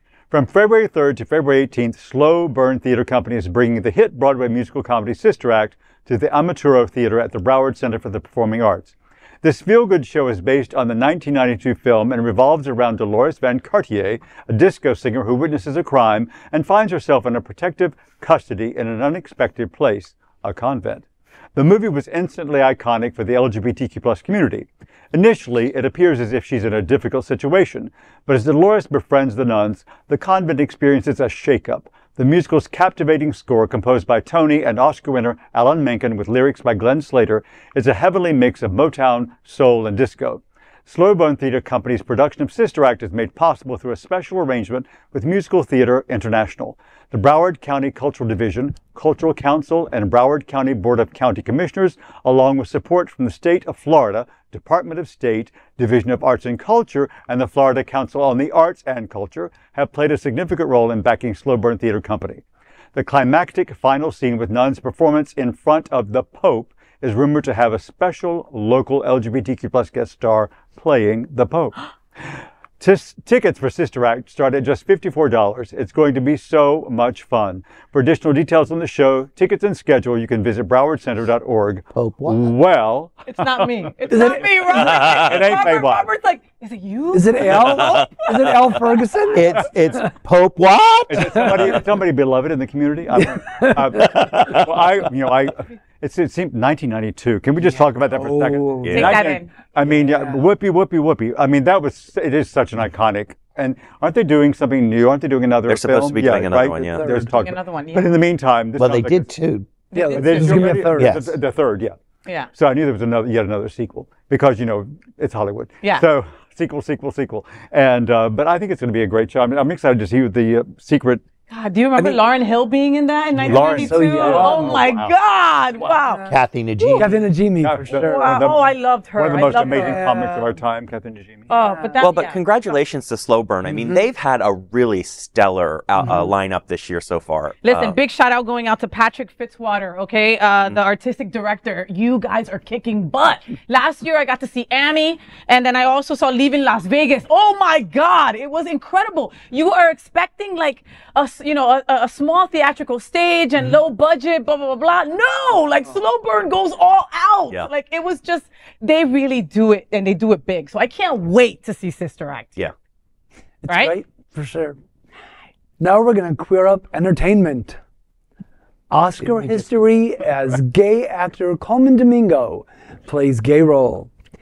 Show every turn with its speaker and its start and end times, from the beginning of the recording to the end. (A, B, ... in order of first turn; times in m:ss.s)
0:00.3-1:02.4 A
1:02.9-1:26.1 A
1:21.9-1:22.5 B
1:23.3-1:28.1 C
1:24.1-1:25.0 D
1:27.1-1:30.1 D
1:29.3-1:31.8 B
1:31.1-1:49.3 A
1:31.4-1:31.8 D
1:33.3-1:34.3 D
1:37.7-1:39.1 D
1:38.8-1:39.2 E
1:38.9-1:39.5 C
1:39.8-1:40.4 D
1:45.7-1:47.1 E
1:46.8-1:47.5 D
1:47.4-1:48.2 C
1:48.8-1:49.7 B
1:49.9-1:50.8 C
1:49.9-1:51.3 D
1:50.0-1:52.0 A
1:50.9-1:51.3 B
1:52.5-2:01.2 A
2:01.5-2:07.1 C
2:03.4-2:05.1 A
2:03.5-2:04.8 D
2:05.9-2:06.4 D
2:06.3-2:07.2 B
2:07.0-2:08.4 D
2:07.6-2:11.5 A
2:07.9-2:10.0 C
2:09.4-2:10.6 D
2:11.5-2:12.0 D
2:11.5-2:12.4 C
2:12.0-2:18.0 E
2:16.0-2:16.3 D
2:17.6-2:42.6 C
2:43.6-2:44.8 D
2:43.7-2:43.9 C
2:45.8-2:47.8 D
2:48.9-2:54.1 D